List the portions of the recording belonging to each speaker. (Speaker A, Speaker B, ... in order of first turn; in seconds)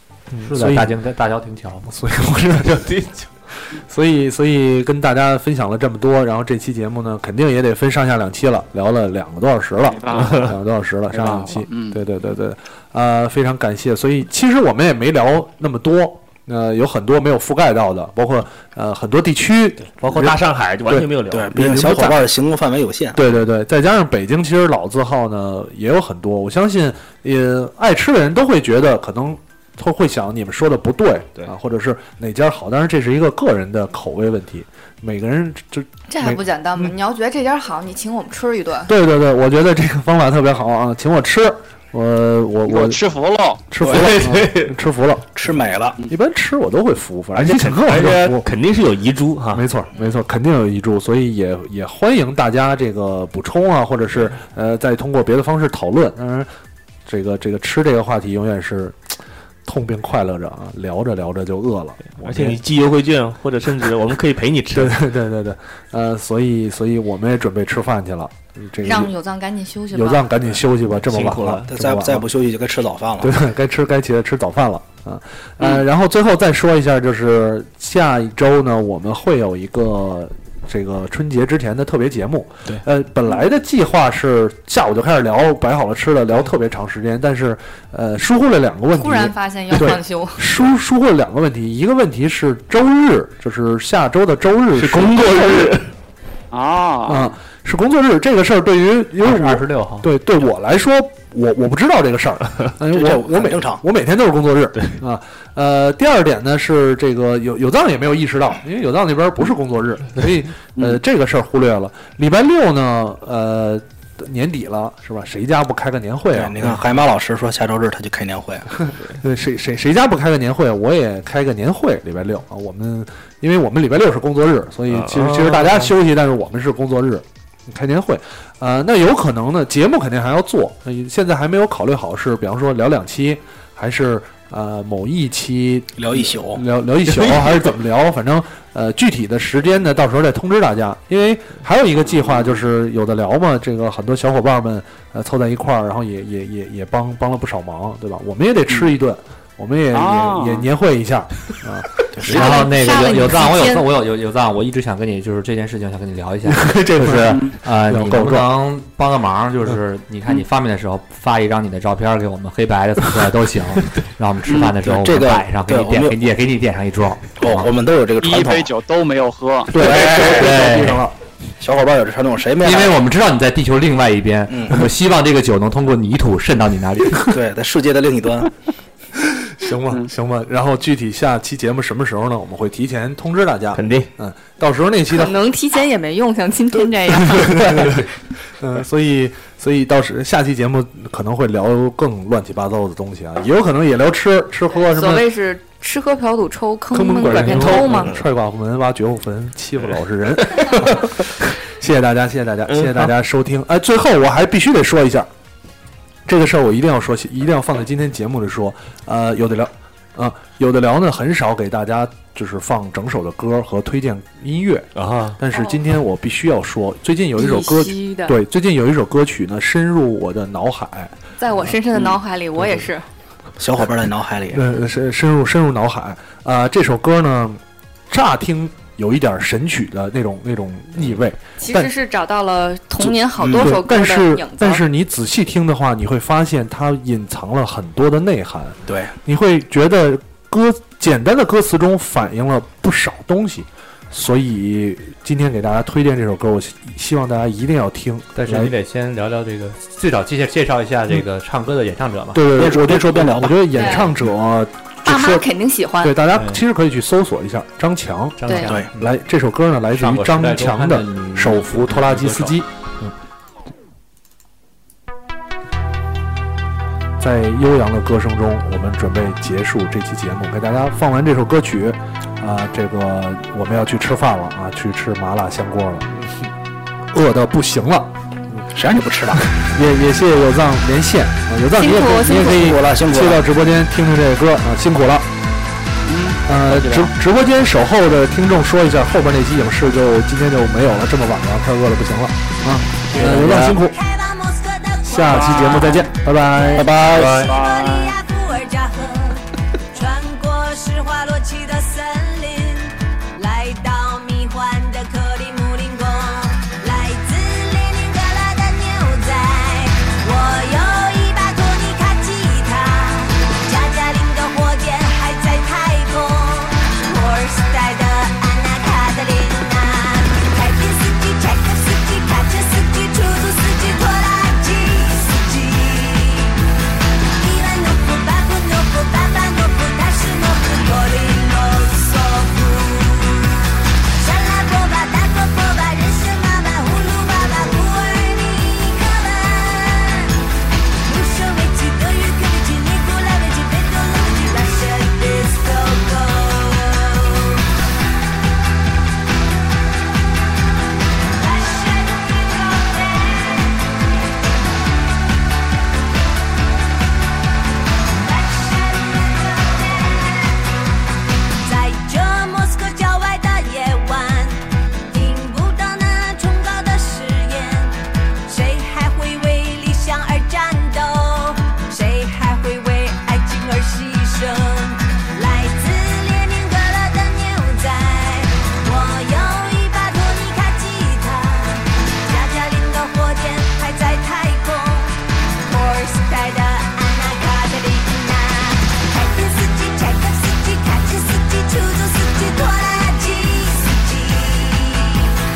Speaker A: 0.3-0.9, 1.9-2.9, 3.8-22.2, 23.1-36.9, 38.9-43.0, 43.7-45.3, 46.1-48.5, 49.5-56.5, 57.1-62.6, 64.7-69.1, 69.9-72.3, 73.2-95.7, 97.1-116.8, 119.2-152.5, 156.5-158.5, 169.7-171.2, 179.2-185.4, 187.3-187.9, 188.6-195.3, 196.9-205.3, 206.3-221.2, 224.5-231.9, 233.0-248.7, 252.3-255.5, 256.0-262.7, 267.2-276.5, 277.1-278.7, 279.3-285.3, 286.5-294.0, 295.1-297.0
Speaker B: 0.4-1.9, 99.2-100.1, 152.2-167.7, 169.8-171.0, 172.6-177.3, 248.4-252.4, 258.4-259.0, 259.9-263.1
Speaker C: 2.6-3.3, 10.1-10.5, 19.9-22.0, 43.8-44.8, 47.4-49.7, 62.2-65.0, 71.1-71.7, 94.7-95.9, 124.9-125.9, 137.1-137.7, 183.7-184.1, 197.3-198.2, 200.6-200.9, 202.7-203.1, 214.9-215.4, 293.1-293.7
Speaker D: 9.9-10.6, 11.1-12.0, 42.7-43.6, 96.5-97.4, 149.9-150.7, 164.5-164.7, 168.2-169.9, 286.0-287.1, 295.2-296.0, 297.0-298.2
Speaker E: 21.3-23.2, 45.4-46.0, 71.7-73.3, 102.9-103.8, 116.3-118.7, 135.9-136.6, 164.8-166.2, 167.4-168.7, 169.8-170.5, 171.6-173.0, 174.5-174.9, 177.3-178.5, 223.6-224.7, 233.4-233.8, 238.9-239.1, 252.5-253.6, 278.7-279.4, 282.5-283.4, 296.7-297.5
Speaker F: 36.1-38.9, 68.8-70.3, 88.9-90.5, 152.2-153.9, 185.1-187.9, 194.7-198.2, 215.5-215.8, 217.4-218.4, 221.4-223.1, 231.6-234.8, 253.7-254.2, 255.1-256.2, 258.4-258.8, 281.7-282.8
Speaker G: 293.1-326.6, 327.4-340.3, 341.0-347.6, 351.2-353.9, 358.1-360.6, 361.6-395.3